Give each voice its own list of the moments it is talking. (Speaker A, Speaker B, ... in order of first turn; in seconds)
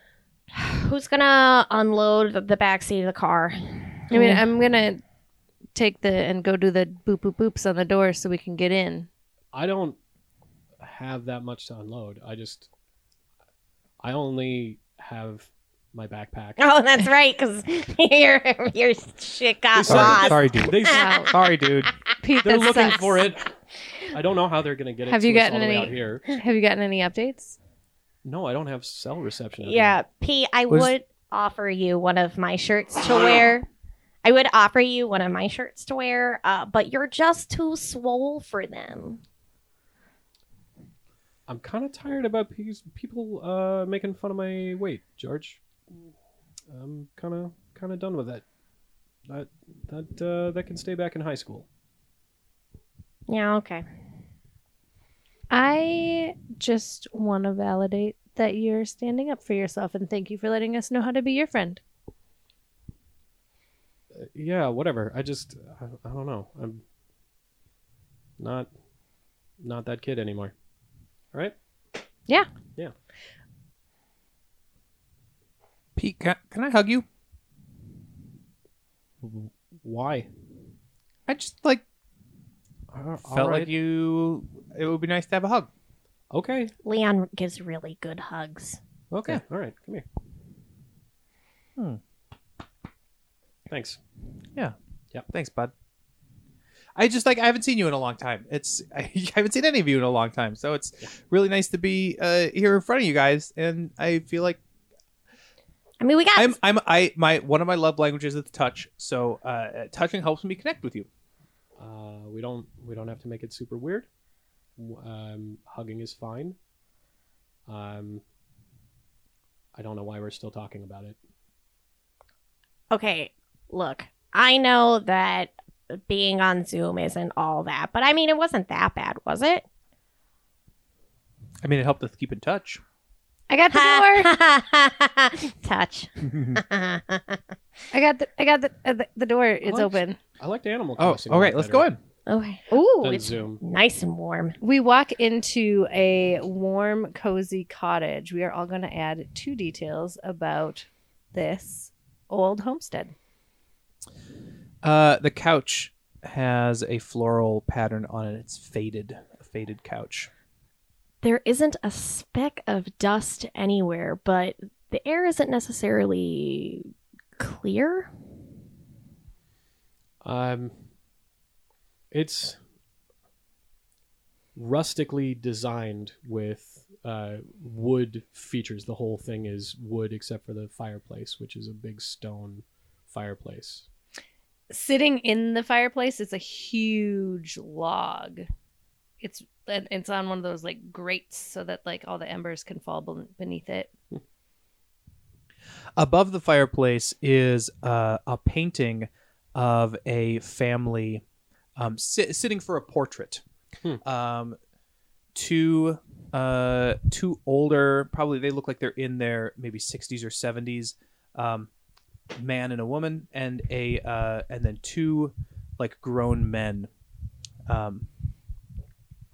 Speaker A: 0.5-4.4, 16.6-21.3, 29.6-33.7, 34.2-39.2, 53.3-53.9, 86.8-88.8, 106.0-106.6, 122.9-129.6, 133.7-137.4, 142.3-144.6, 161.2-168.1
Speaker B: 4.1-5.0, 5.7-9.1, 20.9-21.3, 22.2-23.1, 25.1-27.6, 55.5-61.8, 133.5-134.3, 137.9-140.2, 144.6-153.1, 184.7-188.5, 189.2-193.9
Speaker C: 9.5-10.0, 10.8-12.7, 14.0-16.6, 19.7-21.1, 22.4-23.5, 24.0-26.3, 28.2-30.0, 41.5-45.6, 46.7-48.4, 49.3-51.6, 64.1-66.8, 68.4-68.7, 69.6-70.5, 79.2-80.3, 82.9-83.7, 86.3-86.7, 89.1-90.0, 93.7-94.0, 111.8-114.1, 114.8-116.5, 117.7-118.2, 119.7-121.2, 139.6-141.9, 143.0-143.6, 170.2-170.7, 172.1-172.6, 174.6-183.8
Speaker D: 19.9-21.9, 76.0-77.0, 81.3-81.8, 83.2-85.7, 95.3-95.7, 96.9-104.6, 106.3-111.1, 131.6-132.8, 136.3-136.6, 141.0-142.0, 154.8-160.3, 196.0-201.2, 201.8-203.4, 204.0-204.6, 205.3-211.7, 212.4-216.9, 217.7-218.1